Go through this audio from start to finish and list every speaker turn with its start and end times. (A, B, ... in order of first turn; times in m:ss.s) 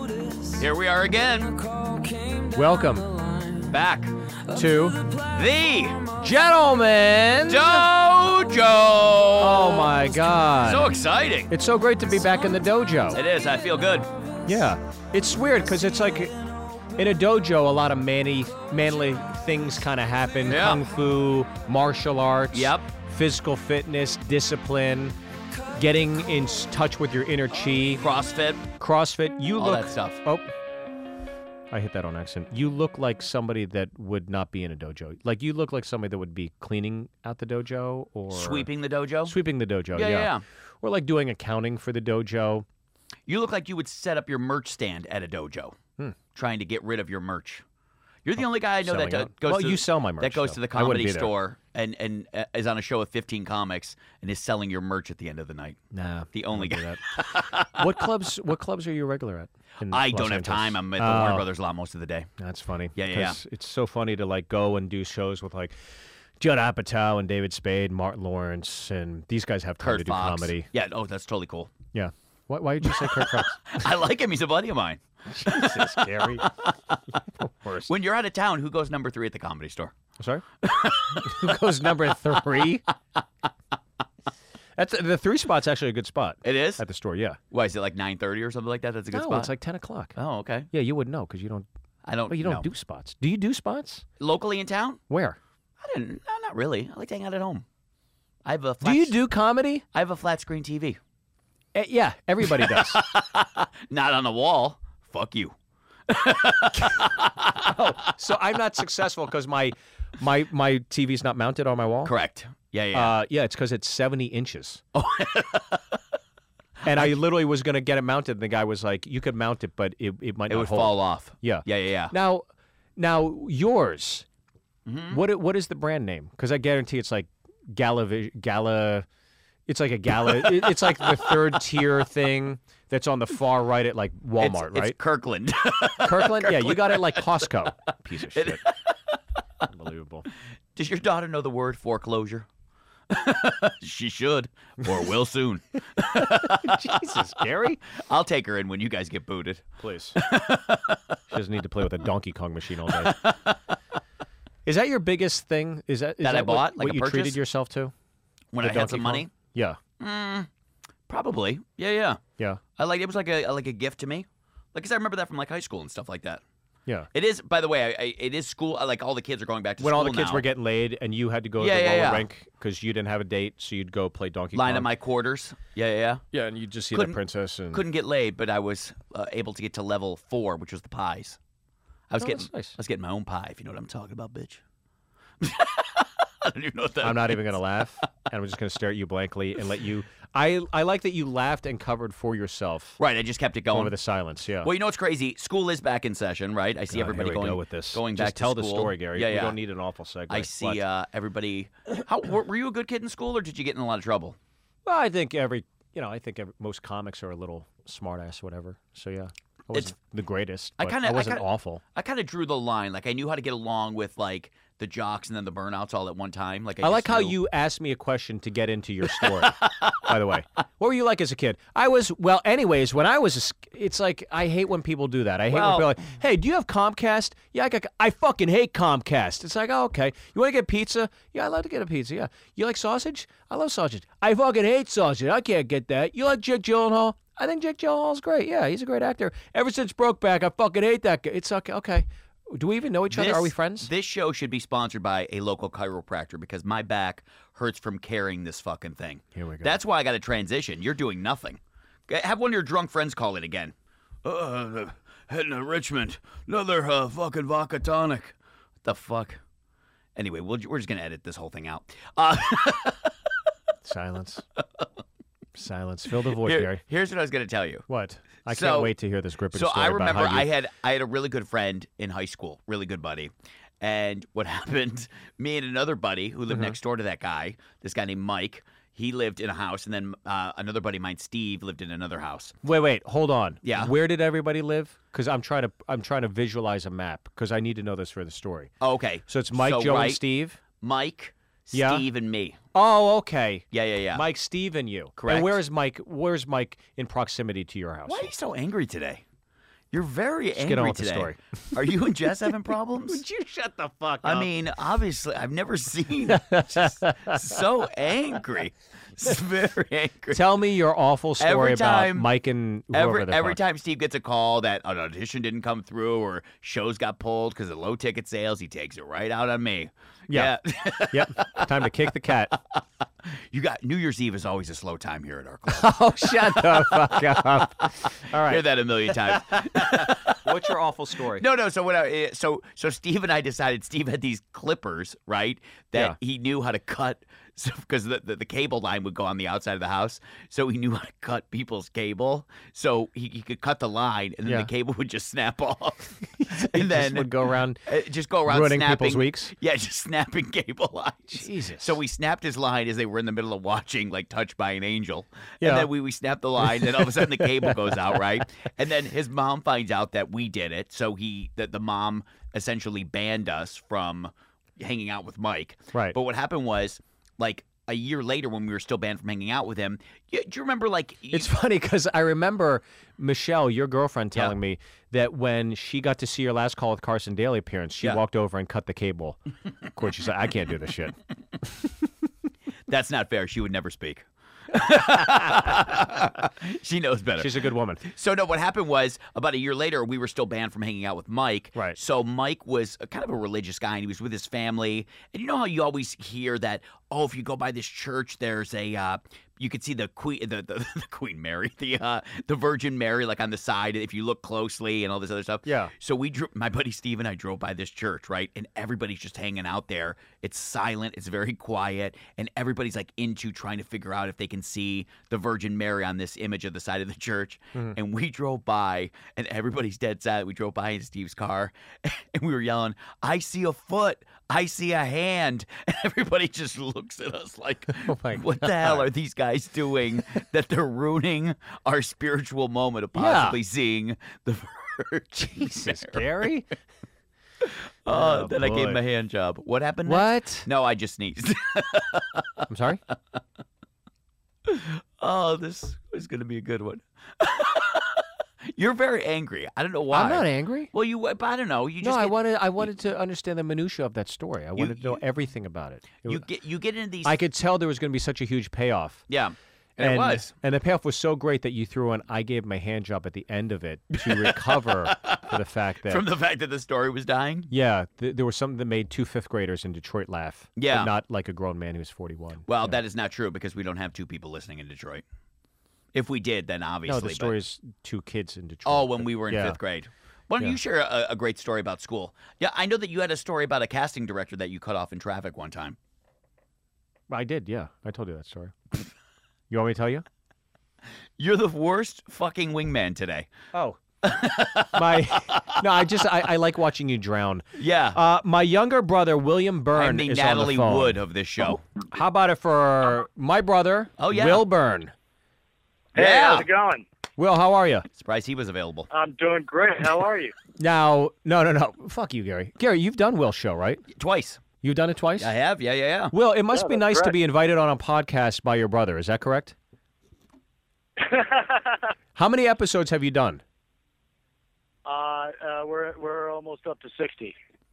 0:00.6-0:01.7 A
0:02.5-0:03.2 B
0:03.6-0:04.1 A
0:04.5-0:05.1 B
0:05.2-0:06.1 A
0:06.2-0:07.9 B
0:07.5-0:09.9 A
0:09.4-0:10.9 B
0:10.6-0:11.5 A
0:11.5-0:13.2 B
0:13.1-0:14.1 A
0:14.4-0:16.3 B
0:16.9-0:25.1 B
0:20.5-0:20.8 A
0:22.5-0:22.8 A
0:25.7-0:28.0 B
0:28.0-0:28.7 A
0:28.8-0:30.5 B
0:29.6-0:30.2 A
0:31.7-0:38.7 B
0:38.3-0:39.3 A
0:39.2-0:40.3 B
0:39.9-0:40.4 A
0:40.8-0:42.6 B
0:43.3-0:45.8 A
0:46.3-0:47.6 A
0:48.2-0:55.8 A
0:48.8-0:51.3 B
0:55.9-0:57.0 B
0:56.3-0:58.0 A
0:57.7-1:01.4 B
0:59.8-1:02.3 A
1:02.4-1:05.8 B
1:03.0-1:03.4 A
1:06.4-1:10.7 B
1:09.8-1:11.7 A
1:11.9-1:13.9 B
1:12.9-1:17.0 A
1:15.3-1:16.4 B
1:17.4-1:17.9 B
1:17.9-1:19.9 A
1:20.2-1:20.4 B
1:20.6-1:21.4 A
1:21.1-1:22.8 B
1:24.8-1:27.4 B
1:26.4-1:26.8 A
1:27.5-1:29.5 A
1:29.1-1:30.2 B
1:30.2-1:30.7 A
1:30.7-1:31.6 B
1:32.0-1:32.7 A
1:32.3-1:34.0 B
1:34.2-1:35.0 A
1:35.1-1:35.4 B
1:35.8-1:37.6 A
1:38.4-1:39.1 A
1:38.8-1:39.8 B
1:39.9-1:41.0 A
1:41.7-1:43.0 B
1:42.5-1:45.5 A
1:46.1-1:48.1 A
1:46.8-1:47.1 B
1:47.6-1:52.1 B
1:52.0-1:53.1 A
1:52.9-1:54.8 B
1:54.9-1:56.0 A
1:56.8-2:04.2 B
2:00.5-2:02.1 A
2:04.8-2:05.2 A
2:05.1-2:09.1 B
2:09.7-2:15.0 B
2:10.3-2:11.6 A
2:14.4-2:17.5 A
2:16.0-2:18.6 B
2:18.3-2:18.9 A
2:19.7-2:20.3 B
2:20.8-2:22.4 A
2:23.1-2:27.3 A
2:26.2-2:27.8 B
2:28.0-2:31.2 A
2:29.8-2:30.2 B
2:31.3-2:33.1 B
2:32.9-2:33.6 A
2:34.6-2:37.9 B
2:36.2-2:37.4 A
2:38.5-2:39.3 A
2:38.6-2:39.8 B
2:40.0-2:40.5 A
2:41.1-2:42.2 A
2:42.8-2:46.4 A
2:47.1-2:50.4 A
2:49.8-2:54.9 B
2:51.6-2:52.2 A
2:54.5-2:56.2 A
2:56.3-2:57.8 B
2:57.7-3:01.4 A
3:02.1-3:04.6 A
3:02.2-3:02.8 B
3:05.4-3:07.5 A
3:07.0-3:13.0 B
3:13.0-3:13.9 A
3:13.7-3:14.7 B
3:14.6-3:19.6 A
3:16.9-3:20.8 B
3:20.3-3:24.4 A
3:24.8-3:31.8 B
3:30.8-3:31.4 A
3:31.9-3:37.4 A
3:36.8-4:03.9 B
3:39.1-3:40.1 A
3:45.5-3:45.9 A
4:03.1-4:19.4 A
4:09.3-4:09.7 B
4:20.2-4:23.1 A
4:23.8-4:24.4 B
4:25.5-4:26.8 B
4:26.3-4:27.8 A
4:27.9-4:30.5 B
4:28.4-4:28.9 A
4:29.5-4:42.5 A
4:36.5-4:36.8 B
4:42.6-4:48.7 B
4:43.6-4:43.9 A
4:48.8-4:50.2 A
4:49.3-4:50.6 B
4:50.8-4:52.6 A
4:51.7-4:52.0 B
4:52.7-4:58.3 B
4:53.7-4:54.2 A
4:55.2-4:55.6 A
4:58.1-4:59.2 A
4:59.9-5:03.2 A
5:00.6-5:01.4 B
5:03.1-5:04.5 B
5:04.2-5:10.4 A
5:06.3-5:07.6 B
5:10.3-5:13.6 B
5:11.4-5:12.3 A
5:12.9-5:21.8 A
5:20.3-5:20.5 B
5:21.1-5:22.5 B
5:23.5-5:30.6 A
5:25.7-5:31.4 B
5:31.4-5:47.3 A
5:46.4-5:47.8 B
5:47.8-6:11.5 A
5:48.5-5:49.5 B
5:51.3-5:52.0 B
5:55.6-5:55.9 B
5:56.6-5:58.2 B
6:11.3-6:19.4 B
6:19.9-6:22.1 B
6:22.9-7:16.3 A
6:25.5-6:25.7 B
6:27.4-6:28.0 B
6:45.6-6:45.9 B
7:08.0-7:09.1 B
7:13.1-7:13.6 B
7:15.4-7:16.7 B
7:17.6-7:22.6 A
7:18.1-7:19.0 B
7:20.0-7:20.7 B
7:22.7-7:23.0 B
7:24.7-7:32.4 A
7:30.1-7:30.9 B
7:32.0-7:36.4 B
7:34.8-7:35.2 A
7:36.2-7:37.4 A
7:37.2-7:39.2 B
7:39.3-7:40.5 A
7:40.0-7:46.2 B
7:44.2-7:45.5 A
7:46.0-7:47.7 A
7:47.7-7:53.0 B
7:50.8-7:51.1 A
7:52.7-7:55.2 A
7:56.1-7:57.5 A
7:57.0-7:59.8 B
7:58.8-8:06.0 A
8:07.3-8:08.8 B
8:09.7-8:10.2 B
8:11.4-8:13.5 A
8:13.7-8:14.0 B
8:14.2-8:16.2 A
8:14.9-8:21.2 B
8:17.8-8:18.2 A
8:19.9-8:21.8 A
8:22.1-8:25.1 B
8:24.2-8:24.6 A
8:26.1-8:26.7 A
8:26.1-8:27.0 C
8:27.4-8:28.1 B
8:28.2-8:29.1 A
8:29.1-8:30.5 C
8:30.8-8:34.0 B
8:34.1-8:34.6 A
8:34.8-8:35.5 B
8:35.4-8:36.3 A
8:36.3-8:39.7 B
8:36.7-8:37.3 C
8:41.2-8:42.0 C
8:42.4-8:43.6 B
8:45.0-8:47.6 C